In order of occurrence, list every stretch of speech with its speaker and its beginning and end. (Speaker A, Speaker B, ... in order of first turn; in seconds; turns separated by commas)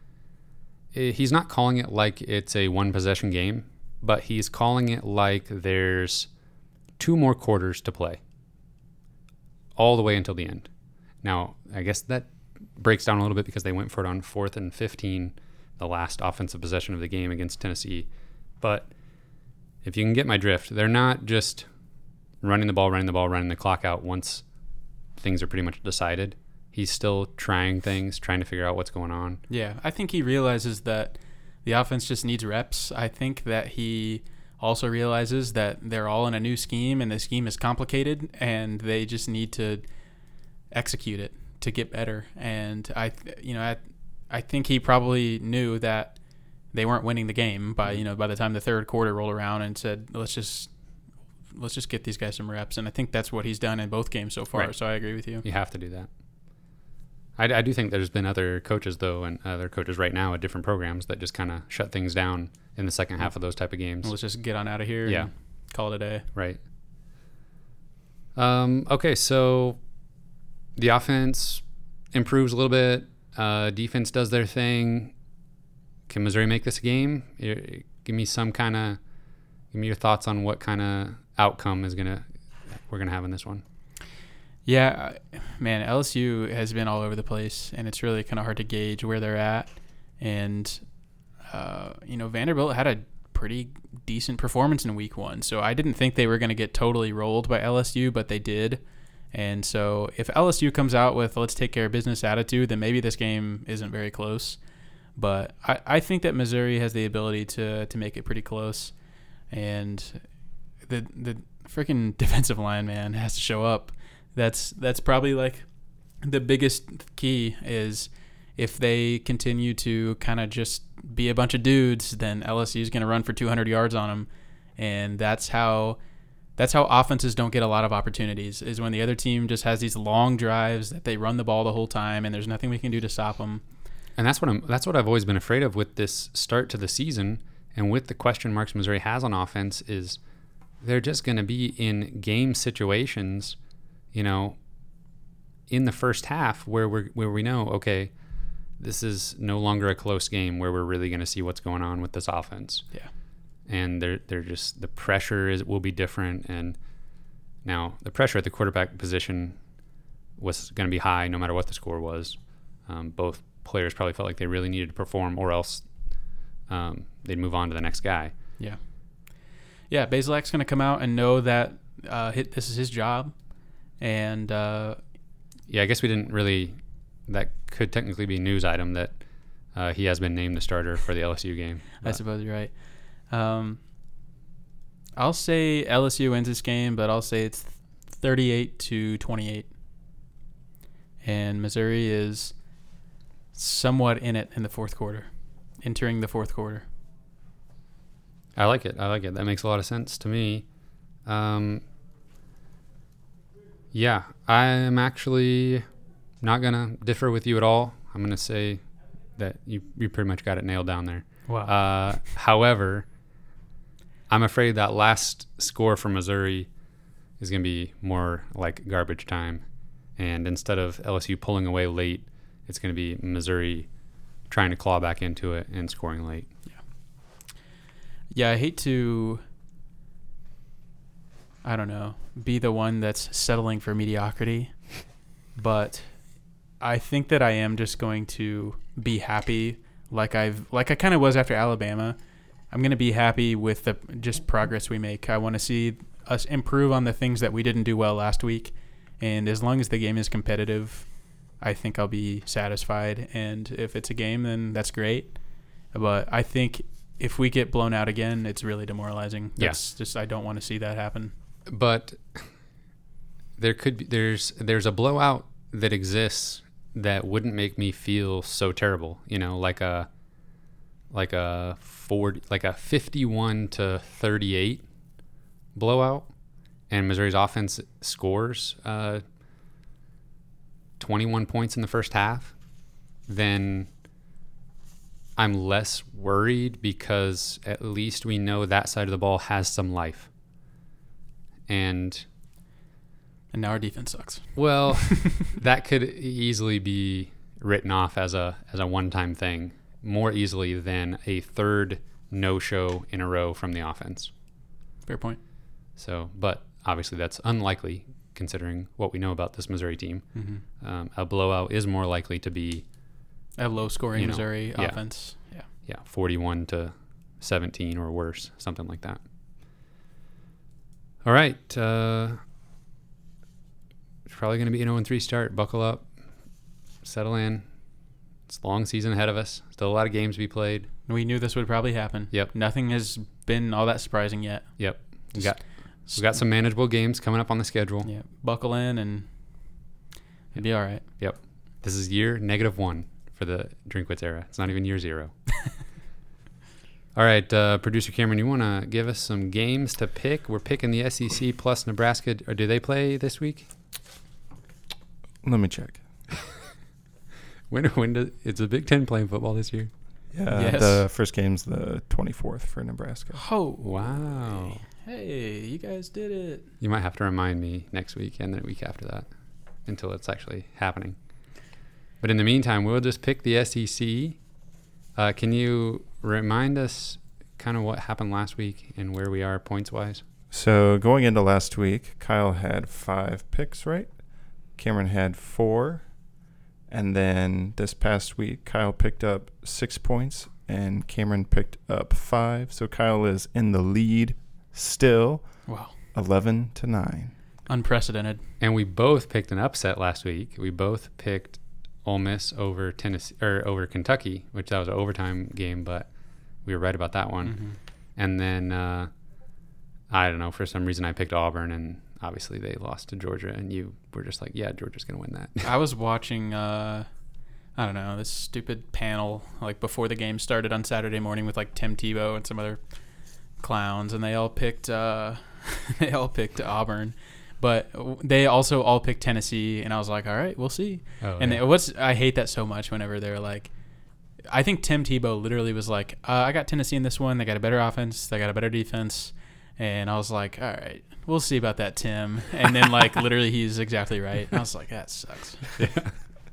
Speaker A: 0.9-6.3, Speaker A: 7.0-8.2, Speaker A: 9.8-10.7, Speaker A: 11.2-18.1, Speaker A: 18.6-18.9, Speaker A: 19.8-21.7, Speaker A: 22.4-24.4, Speaker A: 25.2-29.4, Speaker B: 29.5-39.9, Speaker B: 40.7-46.2, Speaker B: 46.7-50.7, Speaker B: 51.5-55.5, Speaker A: 54.5-56.1, Speaker A: 57.4-64.2, Speaker B: 64.0-66.2, Speaker A: 65.0-65.3, Speaker A: 66.3-66.6, Speaker A: 68.3-69.8, Speaker A: 70.8-75.1, Speaker A: 76.1-79.0, Speaker A: 79.7-83.6, Speaker B: 84.7-90.9, Speaker B: 91.5-104.6, Speaker B: 105.2-109.0, Speaker B: 109.5-115.7, Speaker B: 116.2-126.0, Speaker B: 126.6-133.6, Speaker A: 134.2-140.2, Speaker A: 140.8-143.6, Speaker A: 144.1-144.6, Speaker A: 145.7-148.1, Speaker A: 148.8-152.9, Speaker A: 153.7-156.8, Speaker A: 157.6-159.6, Speaker A: 160.4-165.9, Speaker A: 166.7-168.3, Speaker B: 168.6-175.0, Speaker A: 175.7-182.2, Speaker B: 182.0-183.8, Speaker B: 185.2-189.7, Speaker B: 191.2-192.6, Speaker B: 193.5-196.9, Speaker A: 198.6-200.7, Speaker A: 201.2-201.8, Speaker A: 203.9-205.8, Speaker A: 206.4-208.8, Speaker A: 209.4-213.1, Speaker B: 211.5-211.7, Speaker A: 214.3-216.7, Speaker A: 217.4-219.6, Speaker A: 220.2-223.9, Speaker A: 224.5-226.5, Speaker B: 228.3-229.4, Speaker B: 231.6-242.2, Speaker B: 242.7-261.3, Speaker A: 261.7-262.5, Speaker A: 263.6-270.1, Speaker A: 271.1-274.9, Speaker A: 275.7-276.3, Speaker A: 276.9-279.2, Speaker A: 281.0-282.6, Speaker A: 283.2-283.9, Speaker A: 285.4-290.3, Speaker A: 291.7-292.3, Speaker B: 293.5-295.4, Speaker A: 294.6-304.3, Speaker B: 305.1-305.4, Speaker A: 305.9-312.9, Speaker B: 310.3-310.6, Speaker B: 313.6-315.7, Speaker A: 314.1-319.2, Speaker A: 321.2-322.4, Speaker A: 324.3-326.1, Speaker A: 327.0-327.7, Speaker A: 328.5-330.9, Speaker B: 331.1-336.4, Speaker A: 334.8-338.1, Speaker B: 338.0-339.9, Speaker B: 340.5-341.1, Speaker A: 340.6-345.4, Speaker A: 347.1-353.7, Speaker C: 355.4-356.1, Speaker A: 357.7-359.9, Speaker C: 360.3-363.5, Speaker B: 360.5-361.1, Speaker B: 363.4-366.7, Speaker A: 363.8-364.9, Speaker A: 366.8-369.3, Speaker A: 369.8-371.2, Speaker A: 372.2-374.4, Speaker A: 375.1-380.2, Speaker C: 380.5-384.2, Speaker C: 384.8-386.2, Speaker C: 386.9-397.4, Speaker B: 395.7-395.9, Speaker B: 397.7-398.4, Speaker A: 398.6-409.1, Speaker B: 407.4-407.8, Speaker A: 410.1-415.7, Speaker B: 415.6-417.1, Speaker B: 417.7-446.2, Speaker A: 431.2-431.6, Speaker A: 445.8-446.1